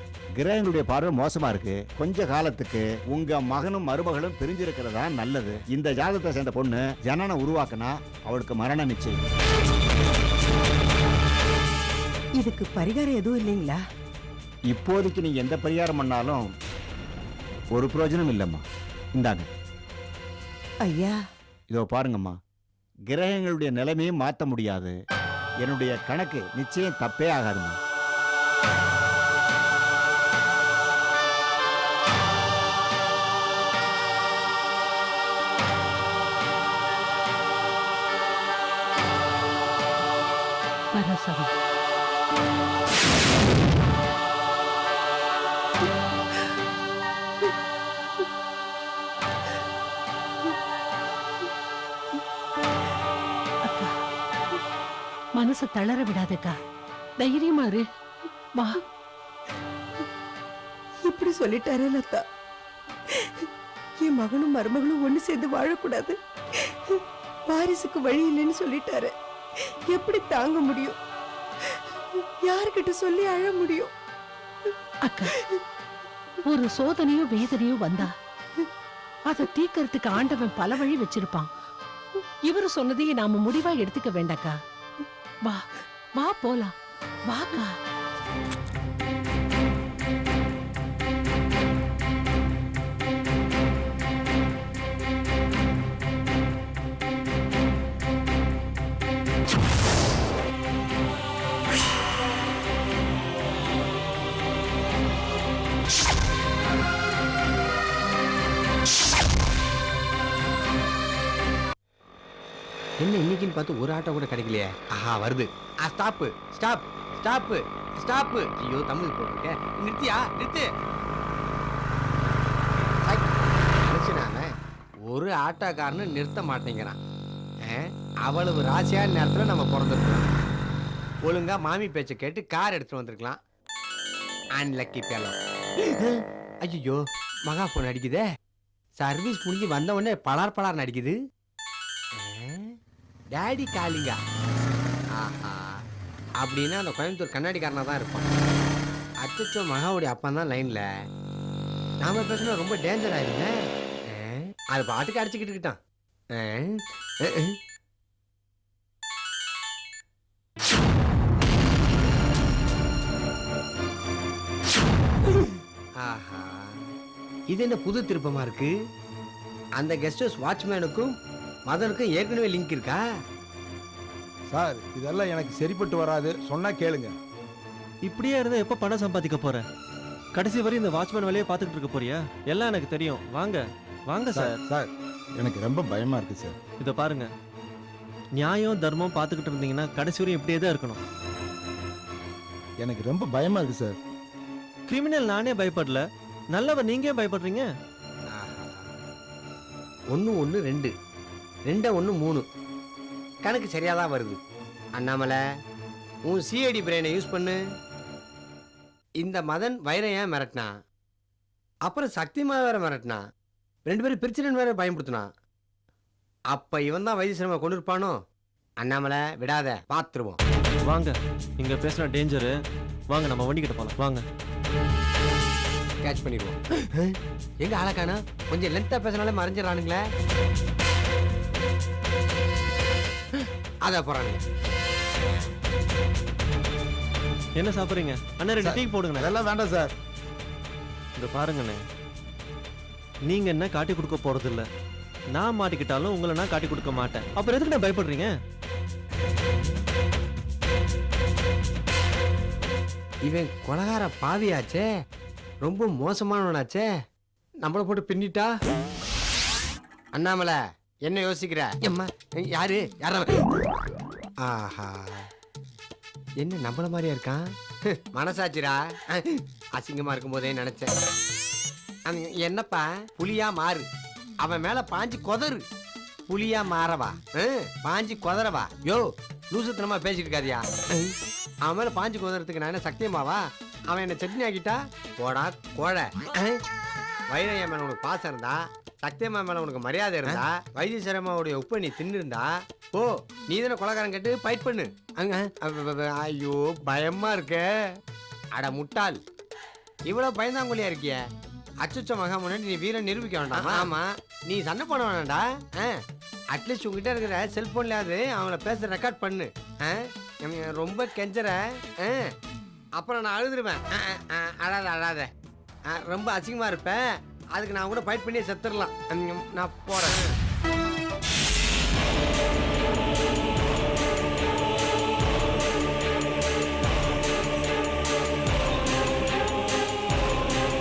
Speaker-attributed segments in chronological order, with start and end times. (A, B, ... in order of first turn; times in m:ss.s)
0:00.4-0:09.2 A
0:12.4-0:13.8 B
0:14.7-0:16.5 A
0:17.7-0:18.6 A
0:19.2-0:19.5 A
0:20.8-0:21.2 B
0:21.7-0:22.4 A
0:23.1-0:25.0 A
0:25.6-0:27.8 A
0:40.9-0:41.5 C
0:53.7-0:53.9 C
0:55.4-0:56.6 C
0:57.2-0:57.8 C
1:01.0-1:02.2 B
1:04.0-1:06.2 B
1:06.9-1:09.1 B
1:09.9-1:11.0 B
1:12.4-1:13.9 B
1:15.1-1:15.3 C
1:16.4-1:18.1 C
1:19.3-1:21.5 C
1:22.5-1:24.5 C
1:26.2-1:26.7 C
1:27.3-1:27.7 C
1:53.0-2:00.7 D
2:03.0-2:03.3 D
2:03.8-2:04.5 D
2:05.1-2:07.0 D
2:07.7-2:10.3 D
2:11.2-2:13.4 D
2:14.6-2:15.4 D
2:15.9-2:18.2 D
2:19.0-2:21.2 D
2:22.2-2:22.7 D
2:23.3-2:24.2 D
2:25.2-2:25.8 D
2:26.4-2:28.3 D
2:29.2-2:30.8 D
2:32.0-2:33.5 D
2:34.1-2:35.8 D
2:36.4-2:37.5 D
2:46.0-2:46.6 D
2:47.5-2:48.7 D
2:49.8-2:51.1 D
2:51.7-2:53.0 D
2:54.5-2:57.2 E
2:58.2-2:59.6 F
3:00.4-3:03.6 F
3:04.2-3:04.6 F
3:04.3-3:06.6 E
3:06.8-3:07.2 F
3:08.4-3:11.0 F
3:12.8-3:14.0 E
3:14.9-3:16.0 F
3:16.6-3:17.6 F
3:18.3-3:18.9 D
3:20.1-3:20.9 D
3:21.7-3:22.4 D
3:23.4-3:24.4 D
3:25.0-3:25.4 D
3:26.2-3:27.6 D
3:29.2-3:30.7 D
3:31.8-3:33.2 D
3:33.9-3:35.3 D
3:36.5-3:38.2 D
3:38.8-3:40.4 D
3:40.9-3:42.5 F
3:43.1-3:44.2 F
3:46.0-3:47.1 D
3:47.6-3:50.0 D
3:53.8-3:54.4 D
3:57.6-3:59.3 F
3:58.6-3:59.9 E
4:01.3-4:01.8 F
4:03.3-4:04.6 F
4:05.4-4:08.3 F
4:13.2-4:14.9 D
4:15.6-4:16.9 D
4:17.6-4:18.5 D
4:20.1-4:23.5 D
4:24.4-4:25.3 D
4:26.4-4:30.9 D
4:32.1-4:33.9 D
4:34.4-4:35.6 D
4:36.3-4:41.0 D
4:41.6-4:46.6 D
4:47.3-4:57.7 D
4:58.6-4:59.2 D
5:00.0-5:01.2 D
5:01.8-5:05.9 D
5:06.5-5:12.3 D
5:13.0-5:15.3 D
5:15.9-5:20.3 D